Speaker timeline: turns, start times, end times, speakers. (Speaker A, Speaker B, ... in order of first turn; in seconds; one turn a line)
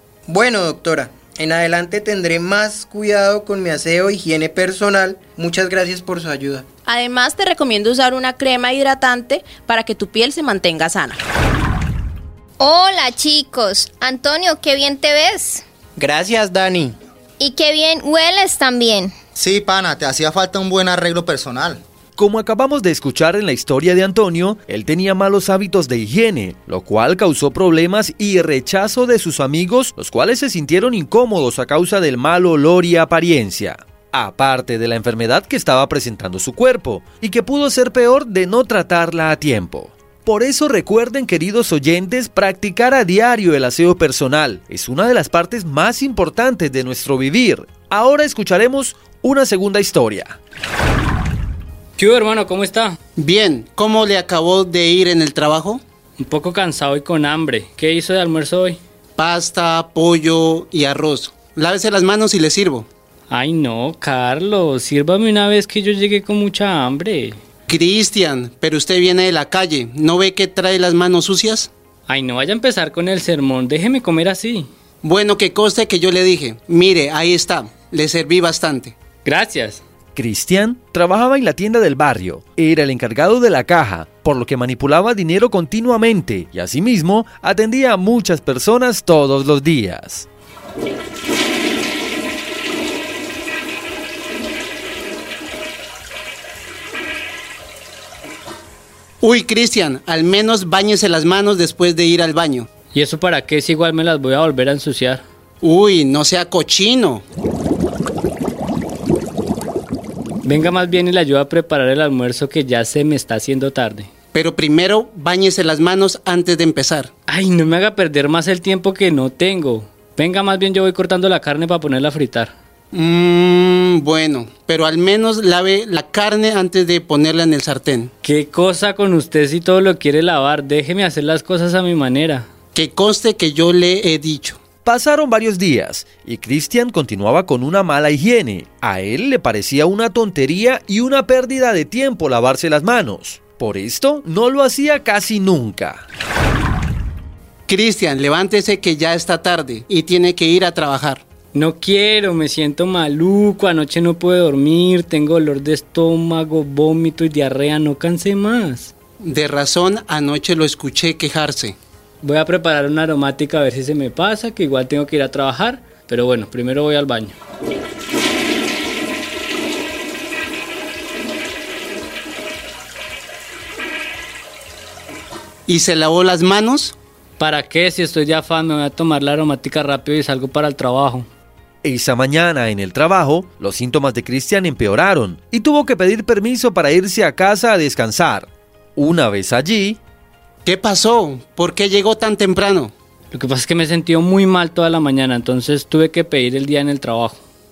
Speaker A: 0.3-6.6
Speaker B: 6.8-11.2
Speaker C: 12.6-15.6
Speaker A: 16.0-16.9
Speaker C: 17.4-19.1
Speaker D: 19.3-21.8
Speaker E: 22.2-50.4
Speaker F: 52.0-53.0
Speaker G: 53.2-55.8
Speaker F: 56.2-58.8
Speaker G: 59.2-62.9
Speaker F: 63.3-67.4
Speaker G: 67.7-71.7
Speaker F: 72.1-74.7
Speaker G: 75.0-78.9
Speaker F: 79.2-79.8
Speaker E: 80.1-90.2
Speaker G: 99.2-102.6
Speaker F: 102.9-105.2
Speaker G: 105.6-107.2
Speaker F: 110.4-114.1
Speaker G: 114.3-117.1
Speaker F: 117.3-122.5
Speaker G: 122.9-128.1
Speaker F: 128.2-132.5
Speaker G: 132.8-134.5
Speaker E: 134.8-146.1
Speaker G: 147.7-151.2
Speaker F: 151.5-158.9
Speaker G: 159.2-161.7
Speaker F: 162.2-167.3
Speaker G: 175.7-176.9
Speaker F: 177.4-181.3
Speaker E: 181.8-190.0
Speaker G: 190.7-192.9
Speaker F: 193.3-197.4